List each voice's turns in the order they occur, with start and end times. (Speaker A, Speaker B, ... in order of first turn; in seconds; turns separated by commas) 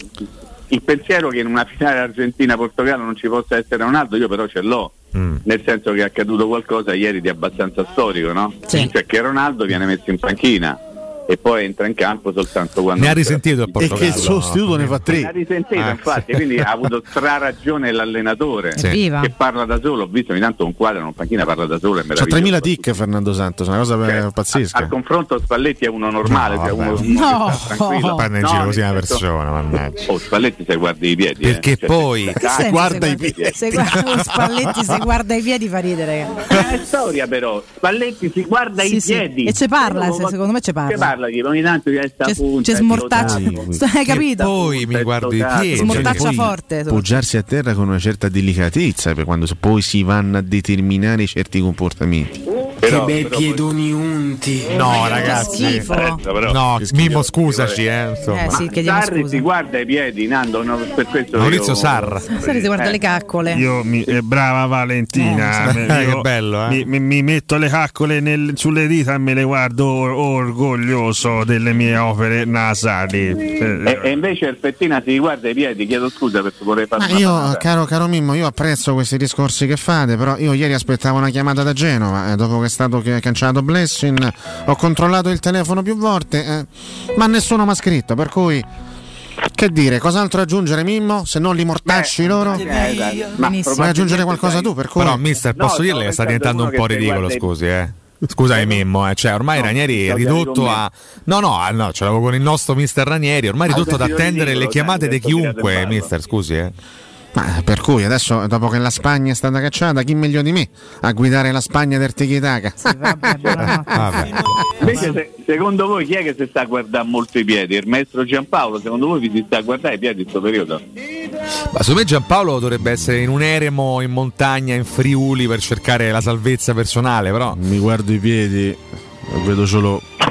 Speaker A: 0.7-14.4, Speaker B: 5.2-5.4, Speaker B: 13.0-15.0, Speaker C: 13.8-15.3, Speaker A: 15.1-23.0, Speaker B: 15.8-16.4, Speaker D: 18.8-19.3, Speaker C: 22.2-24.9, Speaker A: 24.0-29.2, Speaker B: 26.3-27.1, Speaker D: 27.0-28.2, Speaker B: 28.1-30.1, Speaker A: 30.0-33.6, Speaker B: 31.4-32.5, Speaker D: 32.5-36.6, Speaker C: 32.5-34.9, Speaker A: 36.5-46.1, Speaker D: 38.8-41.1, Speaker D: 42.2-44.5, Speaker C: 43.1-43.8, Speaker B: 44.1-46.5, Speaker D: 45.8-47.1, Speaker C: 45.9-52.4, Speaker A: 52.8-53.6, Speaker E: 52.8-55.0, Speaker B: 54.7-55.9, Speaker D: 54.8-56.2, Speaker A: 55.7-57.8, Speaker B: 56.5-58.6, Speaker D: 58.3-59.5, Speaker A: 58.5-63.0, Speaker B: 61.4-62.4, Speaker D: 62.3-63.6, Speaker F: 63.5-74.1, Speaker D: 65.2-65.8, Speaker B: 65.7-66.9, Speaker A: 73.8-77.7, Speaker C: 77.0-88.7, Speaker C: 89.5-93.0, Speaker A: 91.9-94.7, Speaker E: 92.9-93.3, Speaker D: 93.4-94.0, Speaker C: 93.7-95.2, Speaker B: 95.0-106.7, Speaker A: 95.5-97.5, Speaker A: 98.5-98.8, Speaker A: 99.5-100.8, Speaker A: 103.7-106.1, Speaker C: 107.3-114.9, Speaker D: 112.8-115.2, Speaker B: 113.9-114.4, Speaker A: 114.8-120.8, Speaker B: 121.7-127.6, Speaker C: 127.5-130.1